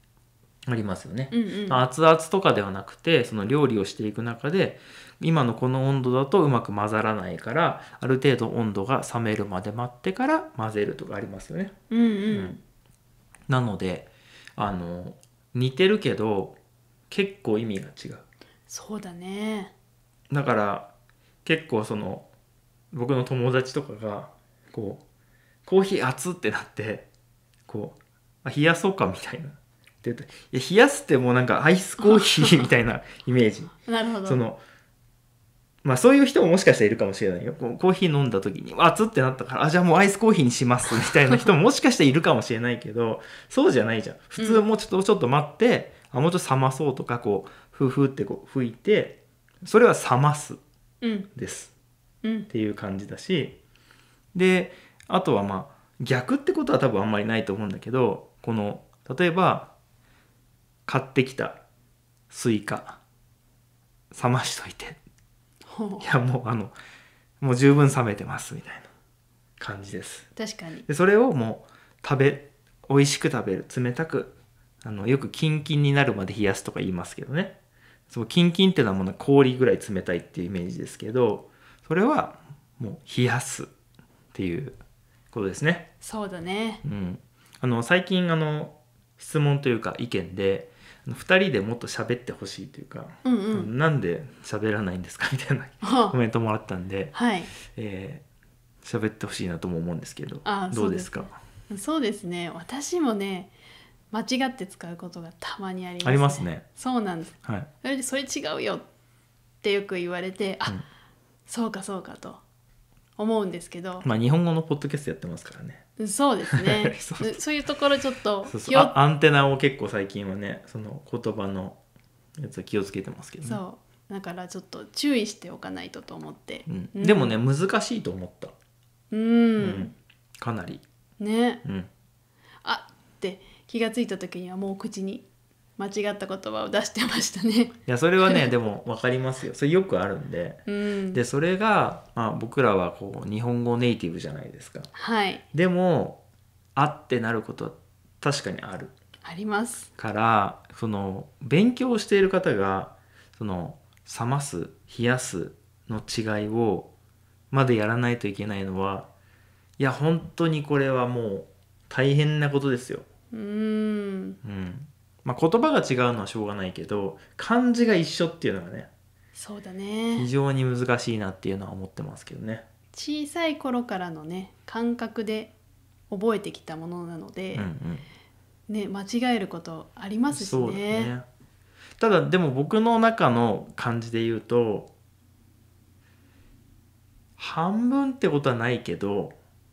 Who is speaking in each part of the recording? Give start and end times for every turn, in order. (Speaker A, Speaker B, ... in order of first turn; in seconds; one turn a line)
Speaker A: 0.7-11.7
Speaker B: 1.3-1.8
Speaker B: 11.9-12.6
Speaker A: 12.3-12.6
Speaker A: 13.5-16.6
Speaker A: 17.1-18.2
Speaker B: 18.7-19.7
Speaker A: 20.3-20.9
Speaker A: 21.4-22.3
Speaker A: 22.9-25.0
Speaker A: 25.6-27.1
Speaker A: 27.7-34.6
Speaker B: 33.9-34.4
Speaker A: 35.8-50.6
Speaker B: 44.4-44.6
Speaker B: 51.0-51.3
Speaker A: 51.3-51.7
Speaker B: 52.2-52.5
Speaker A: 52.5-53.6
Speaker A: 54.3-59.7
Speaker A: 60.9-61.6
Speaker A: 62.3-63.0
Speaker A: 64.1-65.0
Speaker B: 65.7-66.0
Speaker A: 66.0-66.7
Speaker A: 67.4-68.9
Speaker A: 69.6-70.3
Speaker B: 70.3-70.8
Speaker A: 70.8-77.6
Speaker A: 78.1-83.7
Speaker A: 84.3-84.8
Speaker A: 85.3-85.9
Speaker B: 86.0-86.8
Speaker A: 86.8-98.2
Speaker B: 93.2-93.7
Speaker B: 95.8-96.1
Speaker B: 97.1-97.5
Speaker A: 98.8-101.4
Speaker B: 100.4-103.5
Speaker B: 104.1-108.8
Speaker A: 106.0-106.7
Speaker A: 107.4-107.7
Speaker B: 109.6-110.8
Speaker B: 111.5-112.4
Speaker B: 113.2-114.0
Speaker A: 114.0-115.8
Speaker B: 116.0-118.9
Speaker A: 116.5-117.4
Speaker A: 118.5-121.8
Speaker A: 122.4-123.6
Speaker B: 123.4-127.3
Speaker A: 126.7-128.5
Speaker B: 129.1-129.9
Speaker A: 129.6-130.8
Speaker B: 131.2-131.6
Speaker A: 131.6-131.9
Speaker B: 132.6-138.5
Speaker A: 137.8-144.9
Speaker B: 140.7-141.2
Speaker B: 144.9-145.4
Speaker A: 145.5-146.2
Speaker A: 146.8-148.9
Speaker B: 149.2-149.9
Speaker A: 149.9-156.9
Speaker A: 157.5-159.1
Speaker A: 159.8-163.1
Speaker B: 163.3-164.4
Speaker A: 164.4-168.9
Speaker B: 169.3-170.3
Speaker A: 170.1-172.6
Speaker B: 172.9-175.5
Speaker B: 176.1-177.7
Speaker A: 177.5-178.1
Speaker B: 178.7-181.1
Speaker A: 180.3-181.2
Speaker A: 182.0-184.9
Speaker A: 187.4-189.3